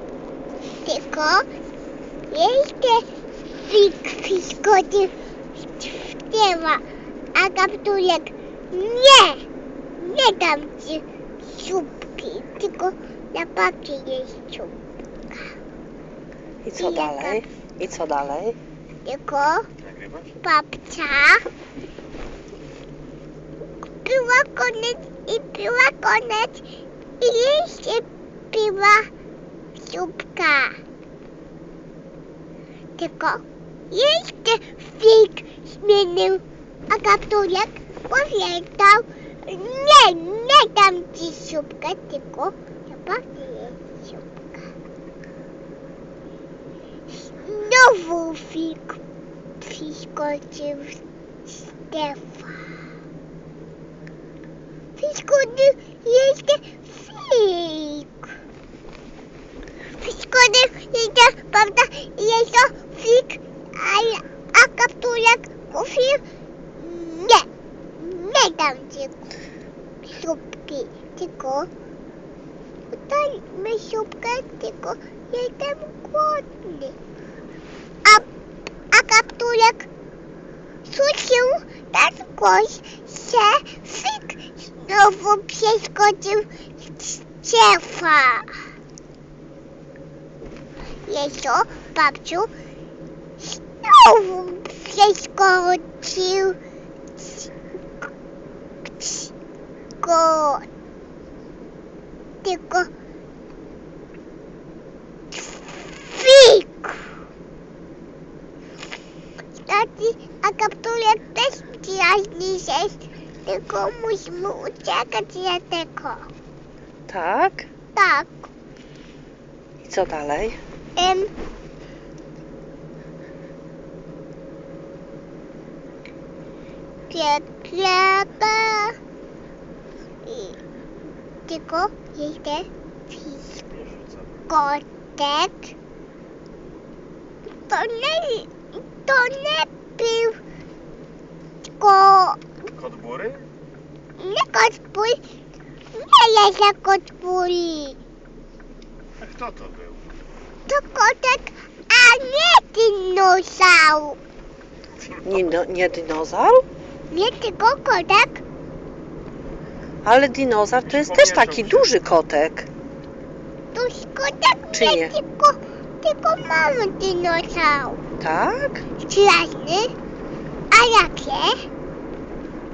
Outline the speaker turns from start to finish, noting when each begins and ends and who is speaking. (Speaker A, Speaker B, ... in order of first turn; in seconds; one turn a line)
Speaker A: 0.8-1.5
Speaker A: 2.3-3.1
Speaker A: 3.6-5.1
Speaker A: 5.8-6.8
Speaker A: 7.3-9.4
Speaker A: 10.0-14.8
Speaker A: 15.3-15.6
Speaker B: 16.6-18.6
Speaker A: 16.8-17.4
Speaker A: 19.1-19.7
Speaker C: 19.9-20.2
Speaker A: 20.4-21.4
Speaker A: 24.1-26.6
Speaker A: 27.2-29.1
Speaker A: 29.8-30.8
Speaker A: 33.0-44.7
Speaker A: 47.2-49.0
Speaker A: 49.6-52.6
Speaker A: 55.0-58.1
Speaker A: 60.0-66.2
Speaker A: 66.8-67.5
Speaker A: 68.0-69.3
Speaker A: 70.0-71.7
Speaker A: 72.9-77.0
Speaker A: 78.9-79.9
Speaker A: 80.8-88.6
Speaker A: 91.1-92.5
Speaker A: 93.4-96.6
Speaker A: 97.2-97.5
Speaker A: 99.0-99.3
Speaker A: 100.0-100.7
Speaker A: 102.4-102.9
Speaker A: 105.4-107.1
Speaker A: 109.6-116.3
Speaker B: 117.1-117.7
Speaker A: 118.0-118.5
Speaker B: 119.8-120.6
Speaker A: 121.0-121.3
Speaker A: 127.1-129.0
Speaker A: 130.2-130.6
Speaker A: 131.5-133.6
Speaker A: 134.5-135.7
Speaker A: 137.7-140.4
Speaker A: 141.8-142.4
Speaker C: 142.8-143.5
Speaker A: 144.2-145.2
Speaker A: 145.9-148.0
Speaker C: 149.2-150.0
Speaker A: 150.7-154.2
Speaker B: 155.2-156.7
Speaker A: 157.1-158.4
Speaker B: 160.0-162.7
Speaker C: 161.0-161.8
Speaker A: 163.7-168.0
Speaker B: 164.7-165.2
Speaker B: 168.2-168.8
Speaker A: 169.0-169.9
Speaker A: 170.7-171.6